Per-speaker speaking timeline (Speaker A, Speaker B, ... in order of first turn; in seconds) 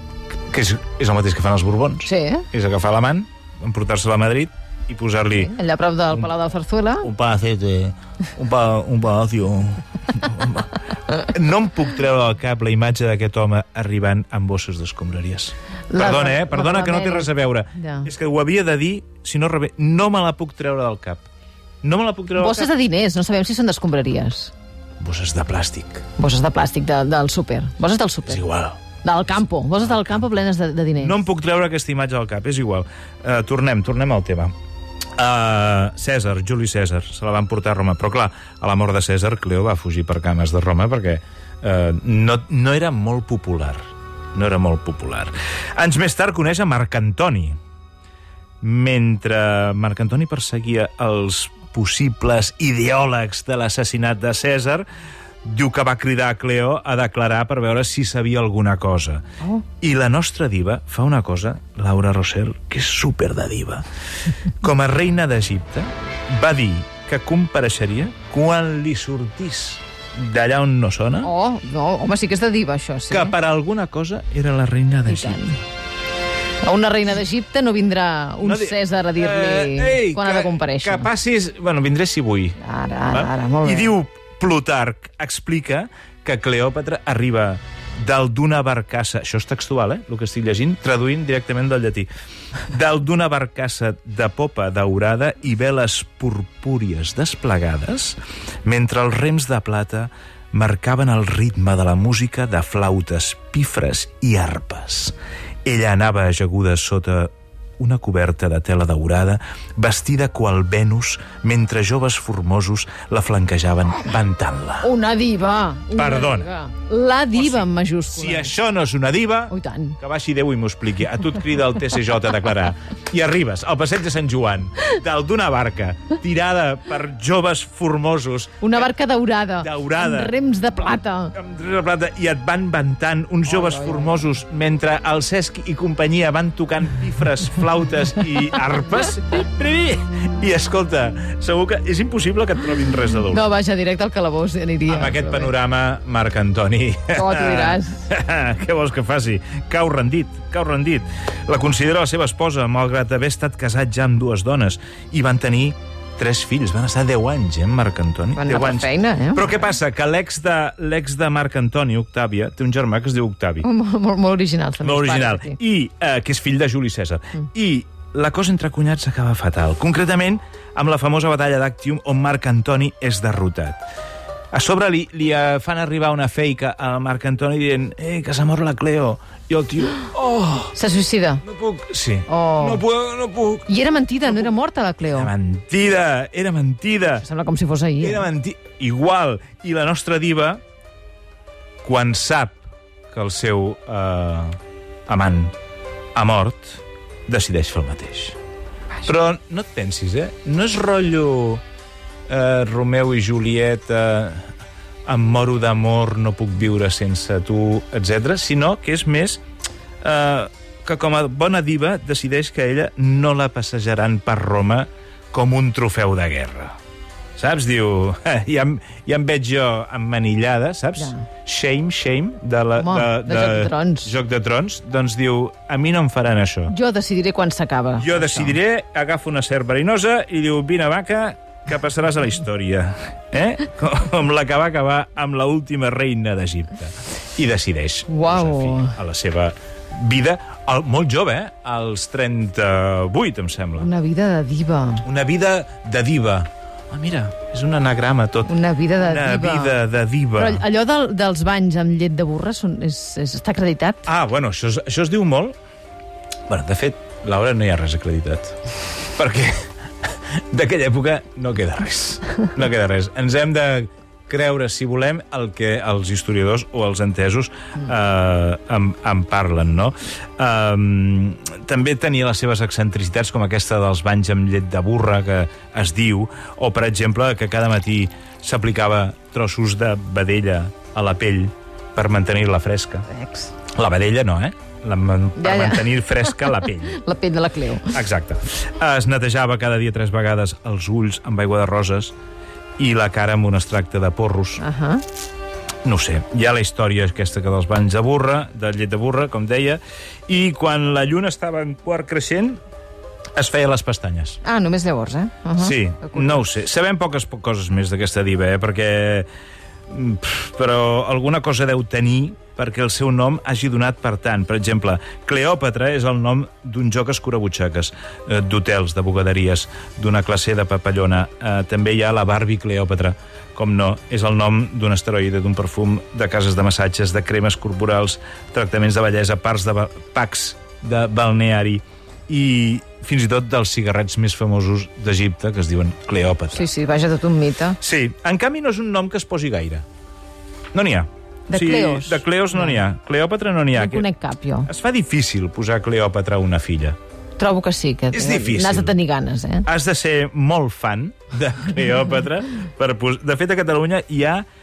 Speaker A: 0.3-5.5, 7.0-21.3, 21.8-22.7, 25.0-26.1, 28.3-29.0, 29.8-30.3, 31.0-34.5, 35.2-47.6, 48.6-54.9, 55.4-59.2, 59.8-63.9, 64.6-71.3, 73.1-75.6, 78.4-82.6, 83.1-92.1, 92.7-114.9, 116.0-116.5, 117.3-128.9, 129.6-130.3, 131.3-143.4, 144.9-163.7, 164.8-173.8, 174.5-180.7, 181.4-183.7, 184.3-184.5, 185.1-187.2, 188.0-190.6, 191.8-195.6, 196.2-198.4, 199.0-201.6, 202.3-204.5, 205.1-209.4, 210.0-216.8, 217.4-226.7, 228.0-243.9, 245.0-250.6, 254.1-255.6, 256.5-258.6, 259.1-283.1, 283.8-287.0, 287.9-292.1, 292.8-294.6, 295.8-302.6, 303.4-304.4, 305.6-309.3, 309.9-336.7, 337.8-339.9, 340.7-344.1, 344.7-347.0, 348.1-349.0, 349.7-354.5
Speaker B: 2.0-2.5, 5.3-7.1, 15.9-18.1, 22.4-24.5, 26.2-28.4, 29.0-31.2, 71.2-73.3, 75.1-75.6, 76.6-81.1, 82.6-83.9, 114.8-118.5, 119.5-120.0, 128.6-131.3, 133.5-134.2, 143.3-145.5, 147.1-148.0, 158.4-159.5, 163.6-165.6, 180.7-181.4, 182.3-182.8, 183.7-185.3, 187.2-188.3, 222.8-224.2, 226.7-228.6, 238.1-239.0, 243.8-245.0, 248.5-249.8, 250.3-254.1, 283.1-283.5, 285.4-288.0, 294.6-295.0, 304.4-306.4, 336.5-337.8, 341.5-342.8, 343.8-344.7, 347.4-349.7